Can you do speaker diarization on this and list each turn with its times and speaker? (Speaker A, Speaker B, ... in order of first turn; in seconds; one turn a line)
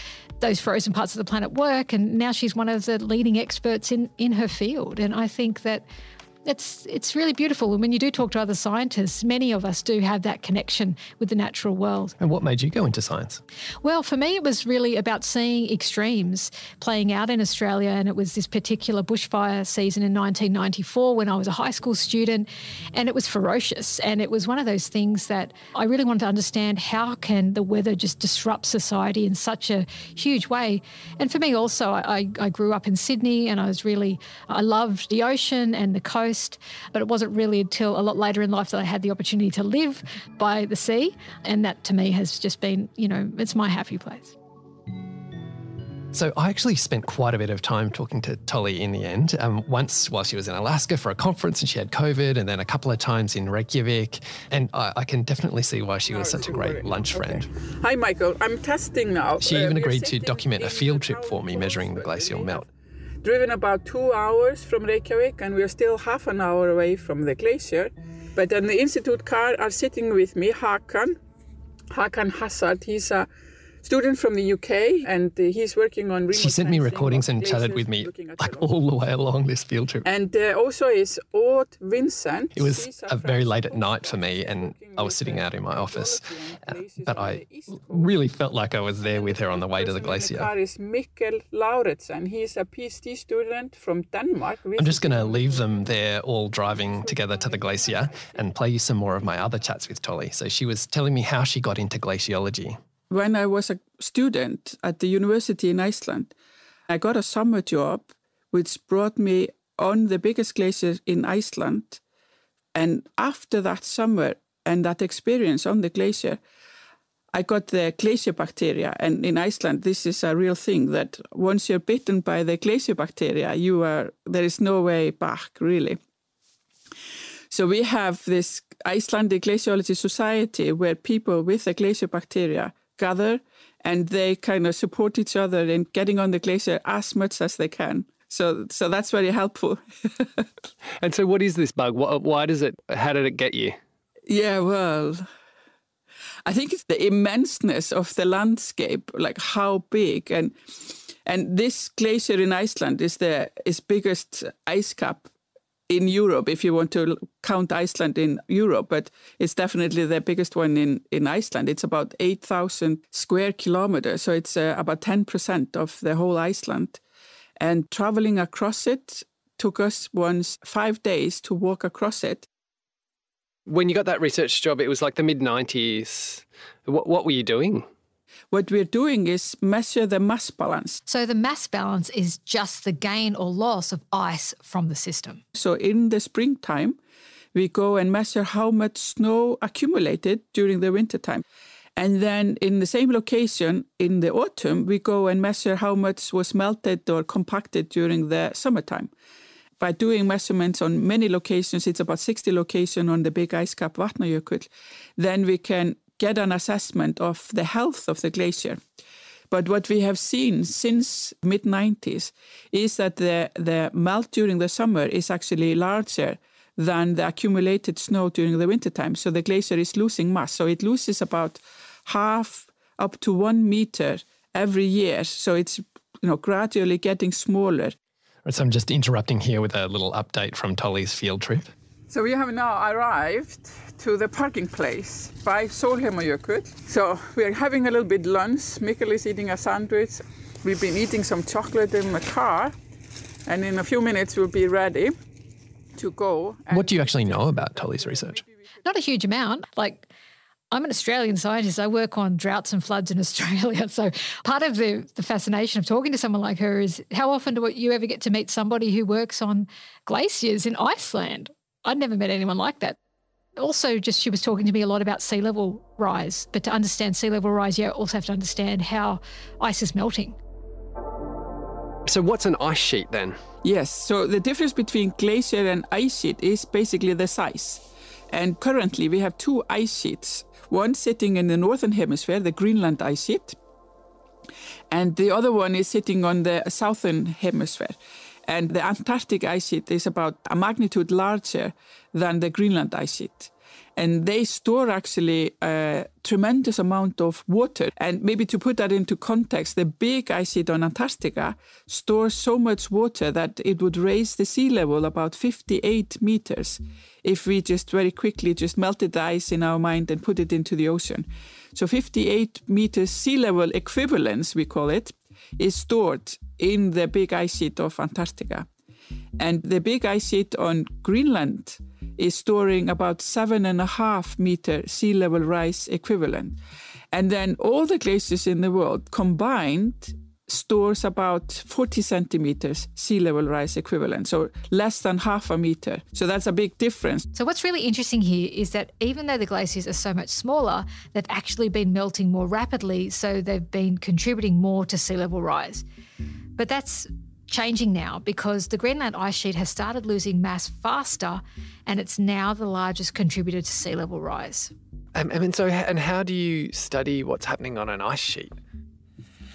Speaker A: 0.4-5.8
Speaker A: 6.5-12.2
Speaker B: 12.2-13.4
Speaker A: 13.8-44.4
Speaker B: 46.1-57.5
Speaker C: 56.1-62.6
Speaker B: 59.4-62.6
Speaker C: 63.2-71.2
Speaker C: 71.9-73.3
Speaker C: 73.8-78.7
Speaker B: 76.3-80.1
Speaker C: 80.0-88.2
Speaker B: 82.5-86.2
Speaker D: 84.9-85.3
Speaker B: 87.0-90.5
Speaker C: 89.0-96.0
Speaker B: 94.8-102.8
Speaker C: 96.7-98.4
Speaker C: 103.1-106.3
Speaker C: 106.9-112.0
Speaker C: 112.7-116.4
Speaker C: 117.3-126.0
Speaker C: 127.5-140.4
Speaker D: 141.0-143.8
Speaker C: 144.3-145.3
Speaker C: 146.4-150.5
Speaker C: 151.2-155.3
Speaker C: 155.9-167.0
Speaker C: 167.6-172.5
Speaker D: 173.7-177.9
Speaker C: 178.5-181.0
Speaker A: 181.1-185.4
Speaker C: 185.5-187.0
Speaker C: 187.5-191.4
Speaker C: 192.0-199.1
Speaker C: 199.8-208.8
Speaker C: 209.5-227.9
Speaker B: 228.4-231.7
Speaker C: 232.1-242.7
Speaker C: 243.5-245.2
Speaker C: 245.9-248.5
Speaker B: 246.7-248.4
Speaker A: 248.8-250.1
Speaker A: 250.7-263.0
Speaker A: 263.6-270.4
Speaker D: 272.1-273.4
Speaker C: 273.6-283.6
Speaker C: 284.9-318.7
Speaker C: 319.4-326.6
Speaker C: 327.1-337.2
Speaker A: 337.3-345.8
Speaker A: 346.6-354.7
Speaker D: 355.1-358.5